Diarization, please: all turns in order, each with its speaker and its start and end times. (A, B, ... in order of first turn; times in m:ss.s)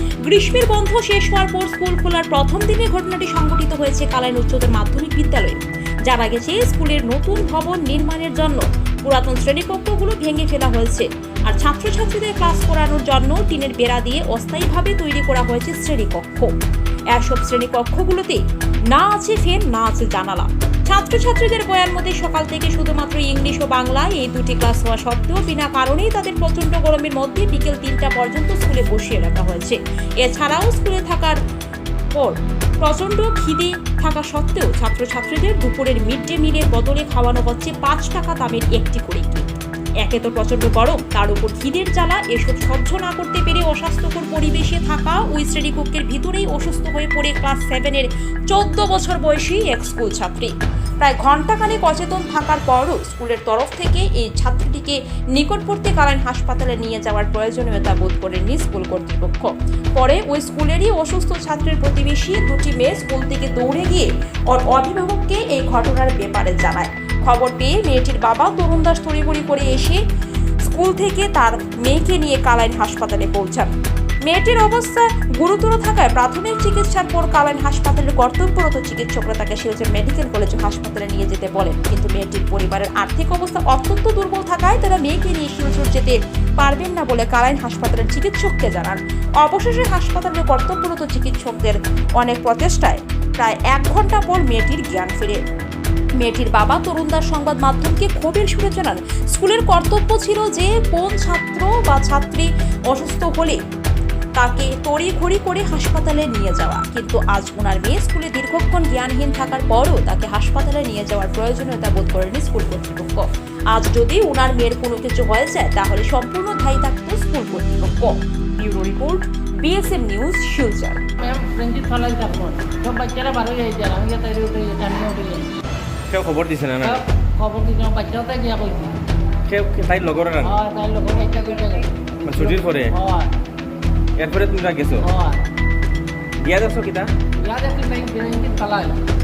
0:00.2-0:16.5 A
0:17.1-0:18.4 A
0:18.9-0:31.4 A
0:32.1-0:39.4 A
0:40.0-1:10.0 A
1:10.7-1:13.7 A
1:14.3-1:35.4 A
1:36.2-1:43.6 A
1:44.4-2:01.0 A
2:01.2-2:05.5 B
2:06.1-2:07.0 C
2:06.8-2:09.0 B
2:09.5-2:10.6 C
2:10.4-2:13.3 B
2:12.2-2:12.9 C
2:14.2-2:15.1 C
2:15.0-2:15.4 B
2:16.4-2:17.1 C
2:17.4-2:19.0 B